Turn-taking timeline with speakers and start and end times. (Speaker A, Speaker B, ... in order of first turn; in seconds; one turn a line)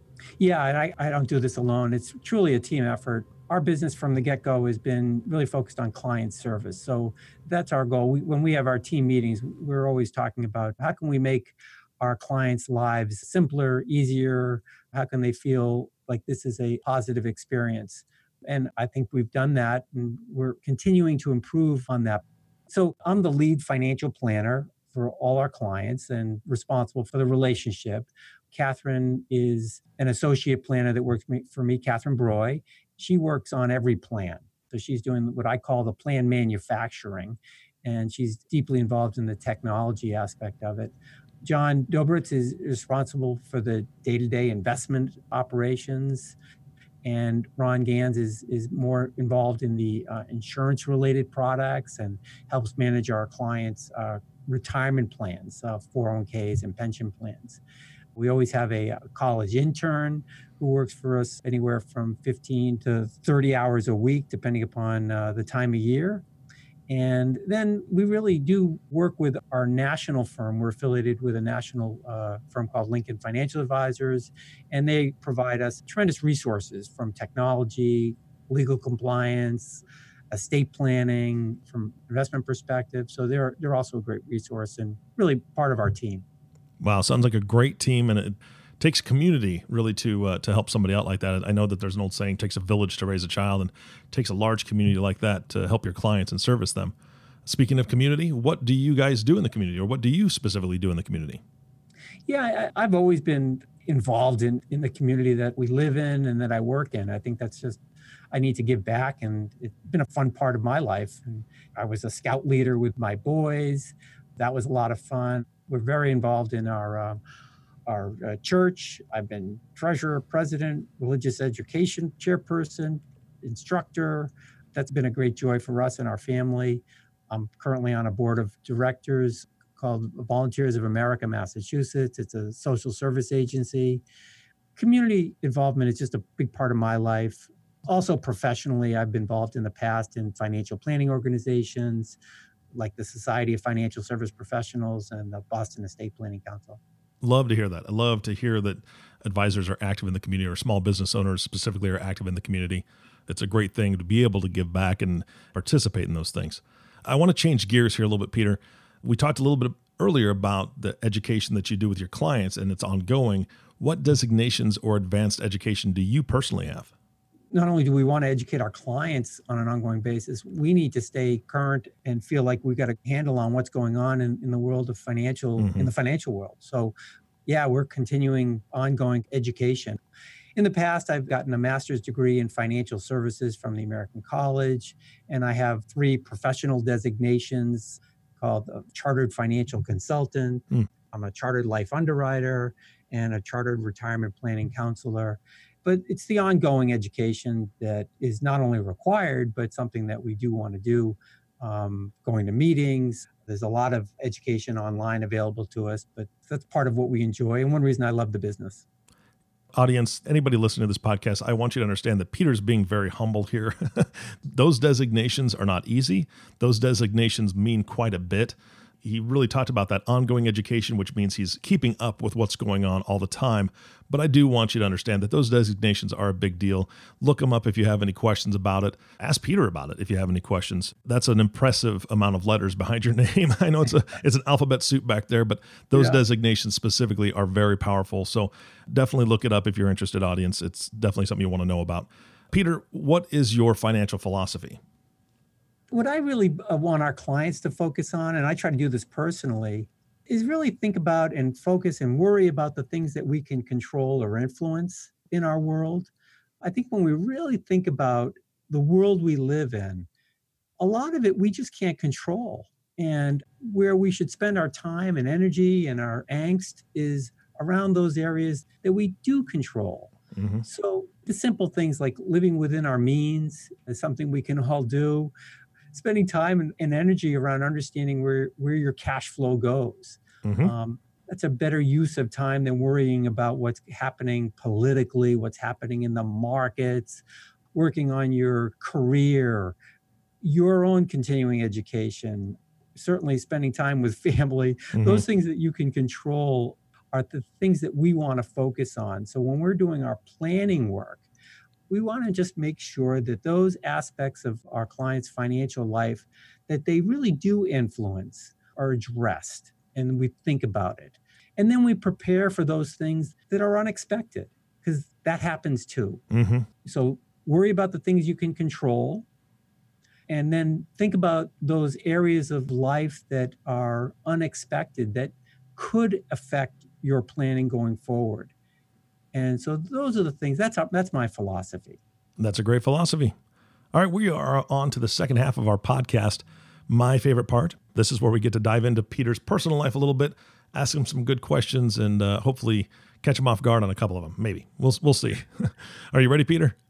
Speaker A: 0.4-46.4
Speaker A: 47.0-57.6
Speaker A: 58.1-66.2
Speaker A: 66.9-86.2
Speaker B: 86.8-96.9
Speaker B: 97.4-101.4
Speaker A: 102.3-107.8
Speaker A: 108.3-117.2
Speaker A: 117.9-134.0
Speaker A: 134.8-142.2
Speaker A: 142.7-146.8
Speaker B: 147.2-166.9
Speaker A: 167.5-176.9
Speaker B: 175.6-175.9
Speaker A: 177.4-180.0
Speaker A: 180.6-208.8
Speaker B: 209.7-244.8
Speaker A: 245.9-256.1
Speaker A: 256.6-260.1
Speaker A: 260.8-270.1
Speaker B: 270.3-270.6
Speaker A: 270.6-275.3
Speaker A: 275.9-287.2
Speaker B: 280.4-280.7
Speaker A: 287.7-289.8
Speaker A: 290.4-301.2
Speaker B: 294.9-295.2
Speaker A: 301.9-316.2
Speaker B: 316.3-316.7
Speaker A: 316.8-319.2
Speaker A: 320.3-328.5
Speaker A: 329.3-332.0
Speaker B: 332.4-333.3
Speaker B: 333.9-346.8